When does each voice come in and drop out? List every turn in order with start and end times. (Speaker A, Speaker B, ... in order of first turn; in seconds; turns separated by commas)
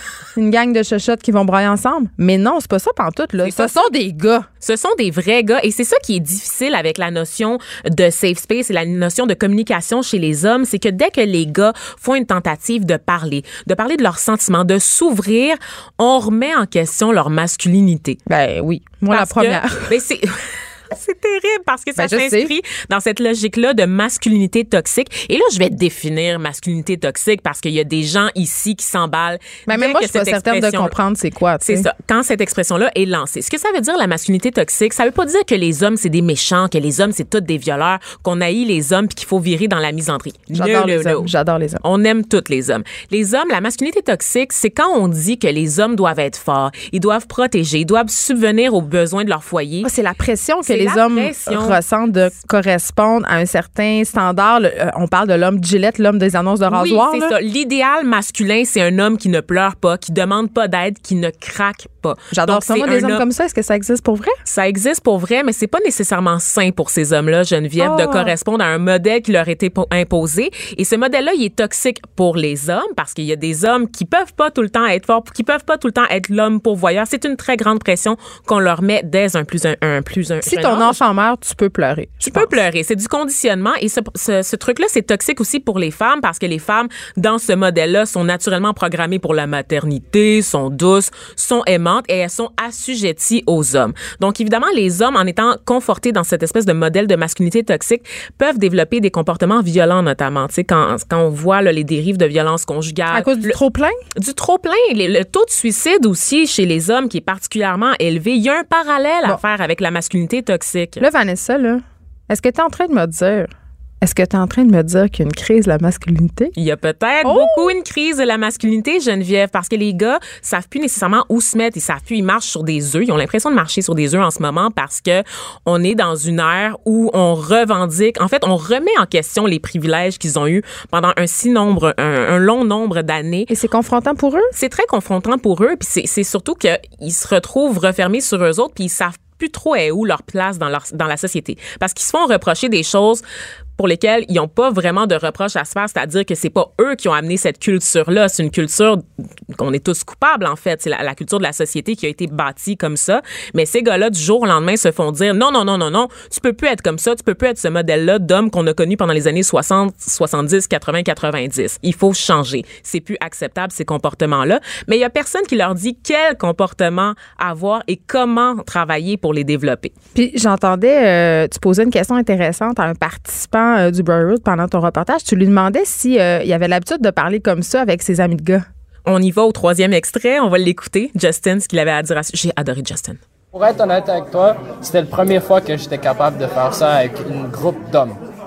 Speaker A: 0.3-4.5, Speaker B: 3.4-3.9, Speaker B: 4.6-18.2, Speaker A: 18.3-20.0, Speaker B: 19.1-30.9, Speaker A: 22.0-22.5, Speaker A: 29.7-31.9, Speaker B: 31.6-41.3, Speaker A: 40.5-41.8, Speaker B: 41.8-49.9, Speaker A: 49.8-57.3, Speaker B: 50.6-51.8, Speaker B: 56.7-63.2, Speaker A: 62.3-64.3, Speaker B: 64.5-81.0, Speaker A: 67.8-68.3, Speaker A: 80.4-82.6, Speaker B: 82.3-103.6, Speaker A: 103.1-104.0, Speaker B: 104.2-111.0, Speaker A: 111.0-113.5, Speaker A: 114.0-116.5, Speaker B: 116.6-133.5, Speaker A: 117.2-117.7, Speaker A: 133.5-134.5, Speaker B: 134.5-143.2, Speaker B: 143.8-149.0, Speaker B: 149.6-169.9, Speaker A: 170.2-178.7, Speaker B: 179.1-183.2, Speaker C: 183.5-188.2